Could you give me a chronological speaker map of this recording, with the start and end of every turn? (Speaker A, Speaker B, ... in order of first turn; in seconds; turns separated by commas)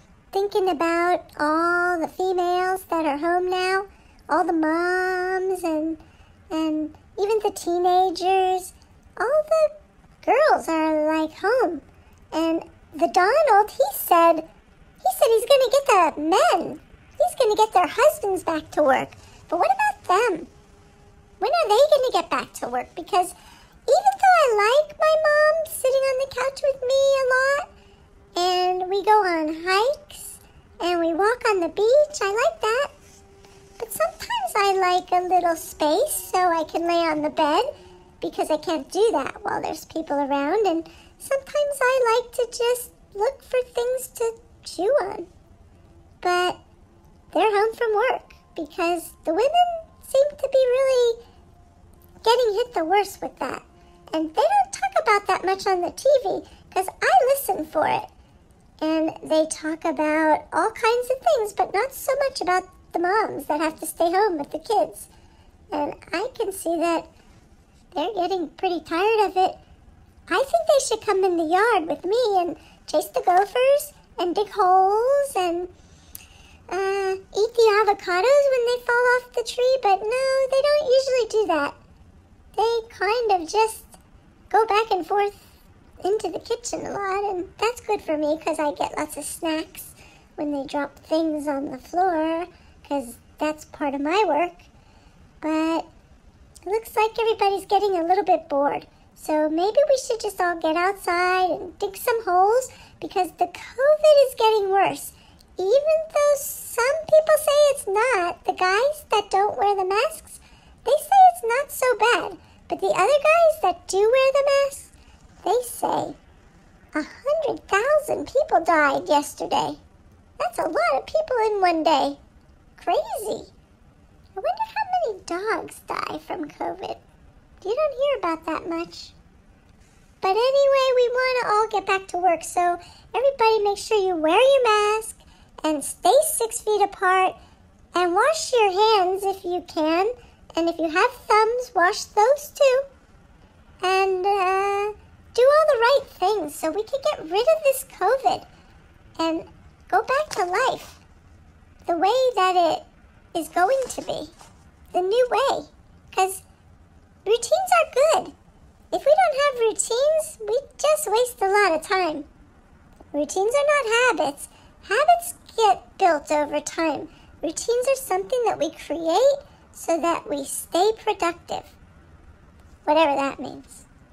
Speaker A: 0.3-6.0, Speaker A: 6.5-9.7, Speaker A: 10.2-14.5, Speaker A: 15.0-20.5, Speaker A: 21.4-23.3, Speaker A: 23.9-27.7, Speaker A: 28.3-32.9, Speaker A: 33.8-37.7, Speaker A: 38.2-45.3, Speaker A: 46.2-46.6, Speaker A: 47.3-51.2, Speaker A: 52.2-58.1, Speaker A: 58.8-65.1, Speaker A: 65.7-67.1, Speaker A: 67.9-69.6, Speaker A: 70.3-75.7, Speaker A: 76.7-81.8, Speaker A: 82.5-84.0, Speaker A: 84.5-85.4, Speaker A: 86.0-94.7, Speaker A: 95.4-95.9, Speaker A: 96.6-116.2, Speaker A: 116.9-119.8, Speaker A: 120.4-122.2, Speaker A: 122.8-123.5, Speaker A: 124.3-127.0, Speaker A: 127.6-129.1, Speaker A: 130.2-137.4, Speaker A: 137.9-142.9, Speaker A: 143.8-148.5, Speaker A: 149.2-151.0, Speaker A: 151.8-154.3, Speaker A: 154.9-156.4, Speaker A: 157.2-158.3, Speaker A: 158.9-162.2, Speaker A: 163.1-171.7, Speaker A: 172.8-173.8